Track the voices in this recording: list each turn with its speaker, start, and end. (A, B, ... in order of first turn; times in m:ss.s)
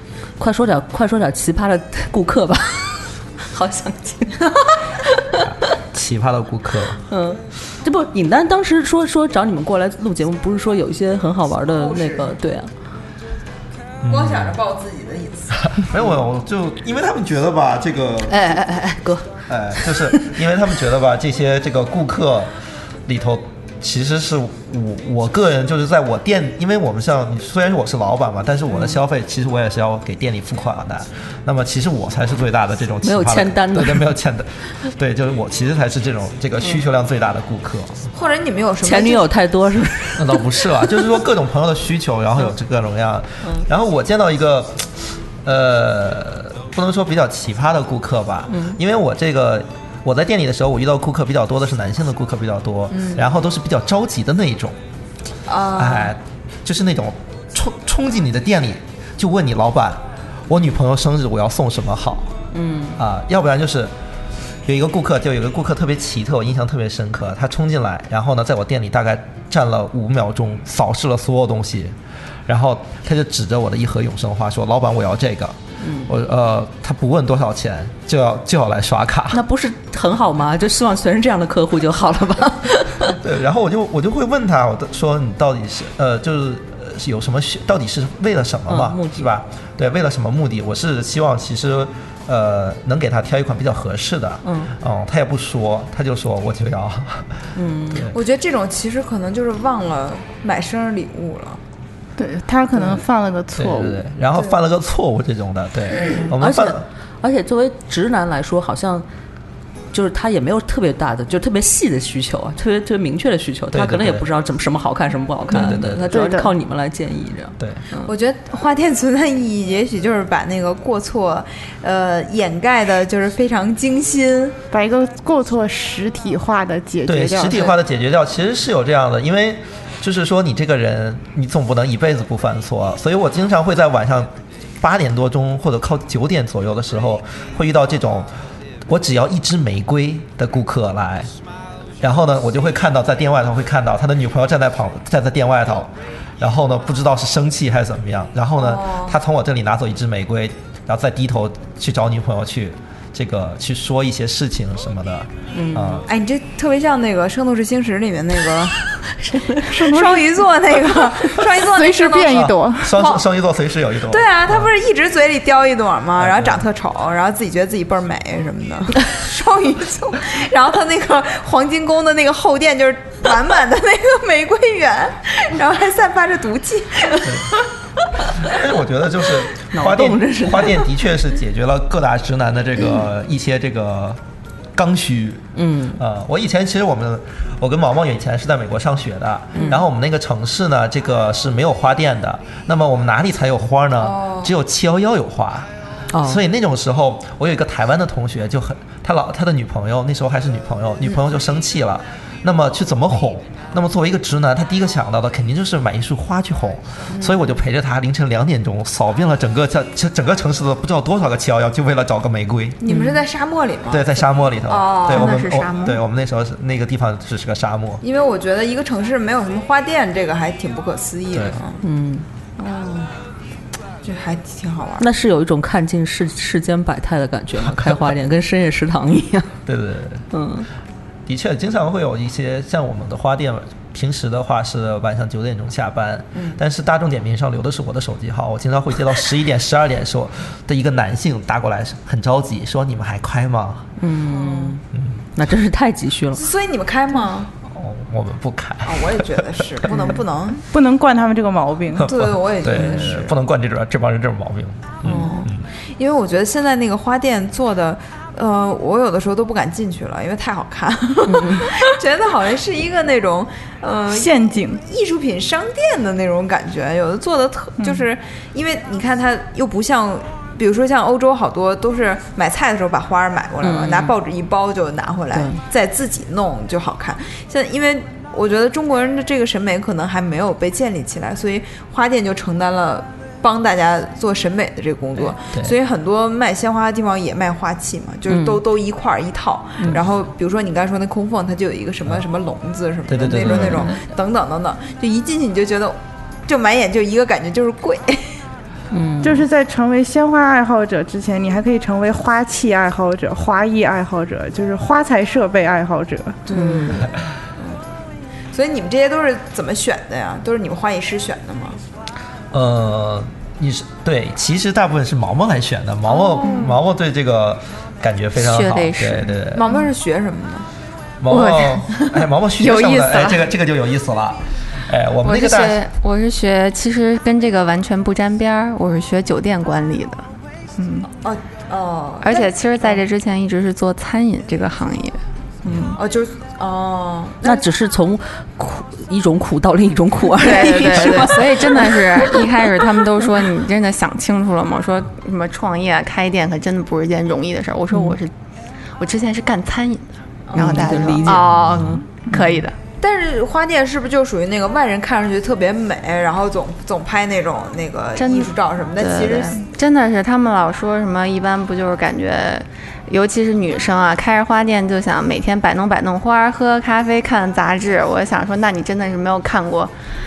0:00.4-0:05.6 A
0:05.5-0:07.0 B
0:07.1-0:12.7 A
0:11.8-0:12.3 C
0:14.0-0:14.6 B
0:14.1-0:15.7 C
0:15.6-0:18.4 B
0:18.3-0:20.4 A
0:19.5-0:22.5 B
0:23.1-0:38.1 B
0:33.0-0:34.1 A
0:38.1-0:39.3 C
0:38.8-0:40.9 A
0:40.2-0:54.8 B
0:48.5-0:48.8 A
0:52.9-0:53.2 C
0:55.5-0:56.1 C
0:55.7-1:02.4 B
1:02.5-1:03.0 A
1:03.0-1:03.9 B
1:04.6-1:12.0 B
1:12.5-1:19.4 B
1:15.8-1:16.1 A
1:19.3-1:23.1 A
1:23.1-1:38.2 B
1:28.7-1:29.3 A
1:34.4-1:34.7 A
1:37.6-1:38.1 A
1:38.1-1:41.6 C
1:42.2-1:44.0 D
1:43.5-1:46.9 B
1:46.2-1:49.1 A
1:49.9-1:58.1 A
1:53.7-1:54.3 B
1:55.5-1:56.3 B
1:55.6-1:56.5 D
1:58.1-2:04.6 C
2:04.7-2:07.7 D
2:07.0-2:18.3 B
2:18.8-2:21.3 B
2:22.0-2:36.0 B
2:28.6-2:29.2 C
2:35.5-2:36.0 A
2:36.1-2:38.8 C
2:39.2-2:39.6 A
2:39.7-2:40.5 D
2:39.7-2:43.2 C
2:41.6-2:43.0 D
2:42.3-2:44.7 B
2:44.1-2:57.6 C
2:46.2-2:46.7 B
2:57.2-2:57.6 B
2:58.4-3:04.2 B
2:59.7-3:00.8 A
3:04.8-3:15.7 B
3:05.6-3:06.0 A
3:09.5-3:09.8 A
3:14.0-3:14.5 C
3:16.1-3:16.4 A
3:16.2-3:32.8 B
3:27.1-3:27.5 C
3:32.8-3:35.4 C
3:32.9-3:33.2 A
3:33.9-3:38.0 B
3:35.1-3:36.0 E
3:38.0-3:41.8 C
3:41.3-3:41.6 B
3:41.8-3:42.2 A
3:42.6-3:43.1 C
3:44.0-3:45.1 C
3:45.0-3:49.5 A
3:49.7-3:50.3 B
3:50.3-3:50.7 A
3:51.3-4:03.9 B
4:04.0-4:04.8 A
4:04.3-4:04.8 C
4:04.9-4:05.2 B
4:05.4-4:06.4 A
4:06.4-4:07.5 C
4:07.6-4:10.0 B
4:08.9-4:10.6 C
4:10.7-4:12.1 D
4:12.0-4:15.7 B
4:12.0-4:13.4 C
4:12.7-4:13.1 A
4:15.0-4:58.4 C
4:15.1-4:15.3 A
4:21.3-4:21.7 A
4:24.1-4:24.8 D
4:33.6-4:34.2 A
4:35.3-4:35.6 A
4:48.3-4:48.6 A
4:53.1-4:53.9 B
4:53.4-4:54.0 A
4:58.9-4:59.5 A
4:59.2-5:06.4 D
5:06.5-5:07.9 C
5:06.5-5:07.1 A
5:08.5-5:11.8 C
5:12.5-5:19.7 B
5:16.1-5:16.8 C
5:18.4-5:19.3 E
5:19.5-5:20.7 C
5:21.2-5:25.8 B
5:21.3-5:23.4 E
5:25.2-5:30.2 E
5:30.8-5:31.1 E
5:31.1-5:33.0 C
5:32.2-5:35.2 E
5:35.7-5:36.0 A
5:35.9-5:37.6 C
5:37.4-5:42.5 A
5:40.4-5:48.3 E
5:40.4-5:41.3 C
5:49.0-5:52.8 E
5:50.5-5:51.4 C
5:50.6-5:52.6 A
5:51.6-5:52.0 B
5:53.0-5:59.6 C
5:58.2-6:09.9 E